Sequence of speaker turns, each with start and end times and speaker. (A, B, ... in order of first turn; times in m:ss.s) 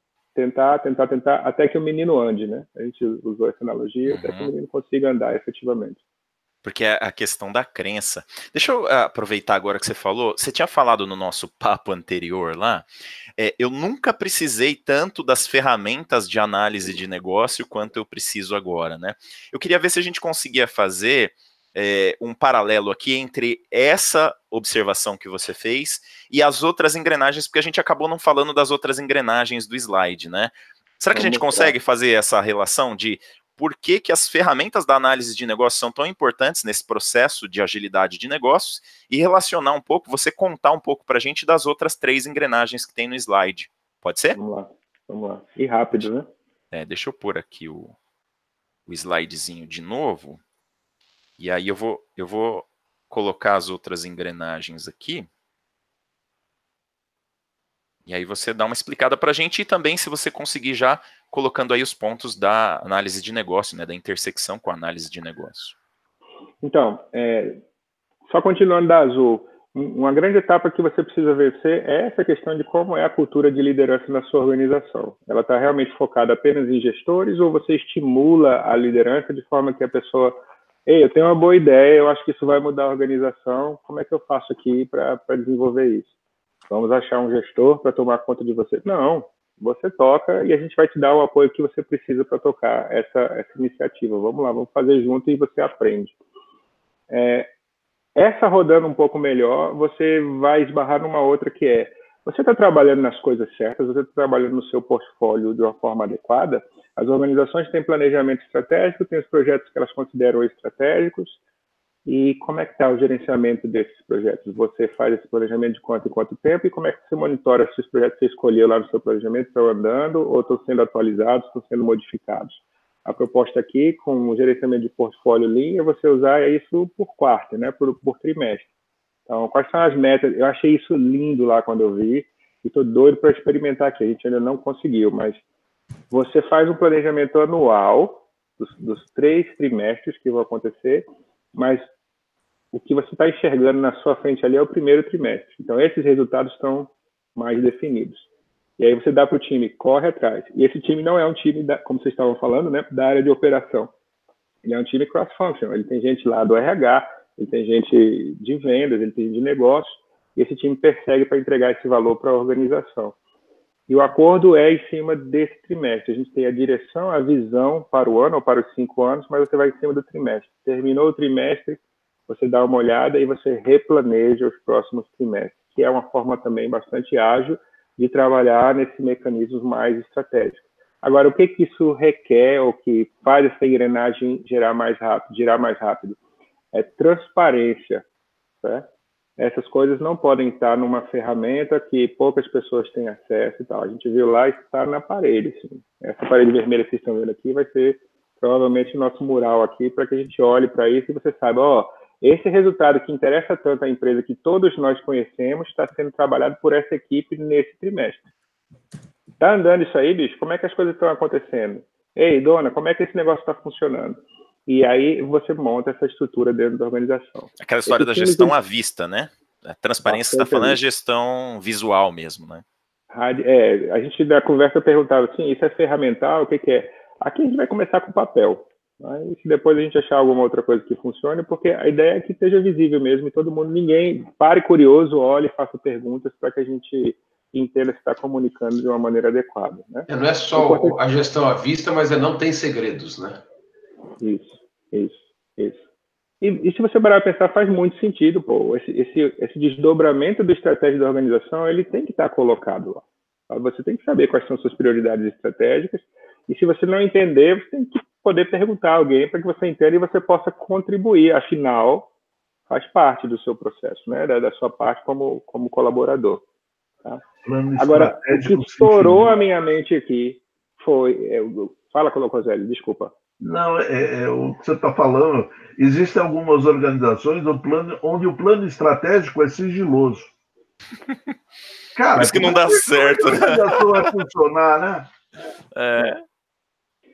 0:00.4-0:06.0 A
0:04.1-0:04.5 B
0:06.6-0:12.9 B
0:13.4-0:44.4 B
0:31.1-0:31.8 A
0:44.4-0:46.3 A
0:46.7-0:48.0 B
0:48.9-0:50.4 B
0:51.4-0:55.3 B
0:58.1-1:05.8 B
1:06.6-1:07.6 A
1:08.3-1:26.1 A
1:26.7-1:36.1 A
1:37.1-1:37.5 A
1:38.2-1:51.4 A
1:52.1-2:08.7 A
2:09.3-2:15.4 A
2:16.1-2:21.9 A
2:22.7-2:28.2 A
2:28.8-2:33.9 A
2:34.6-2:43.2 A
2:43.9-3:06.2 A
3:06.7-3:08.0 A
3:08.6-3:08.9 A
3:09.4-3:28.2 A
3:29.4-3:38.5 A
3:37.6-3:42.6 B
3:40.0-3:40.8 A
3:43.1-4:01.0 A
4:00.1-4:03.4 C
4:04.2-4:05.8 A
4:06.4-4:22.1 A
4:22.7-4:26.4 A
4:27.4-4:29.4 D
4:27.8-4:33.1 A
4:33.4-4:40.3 D
4:42.0-4:45.1 D
4:42.2-4:44.1 B
4:45.8-4:46.2 B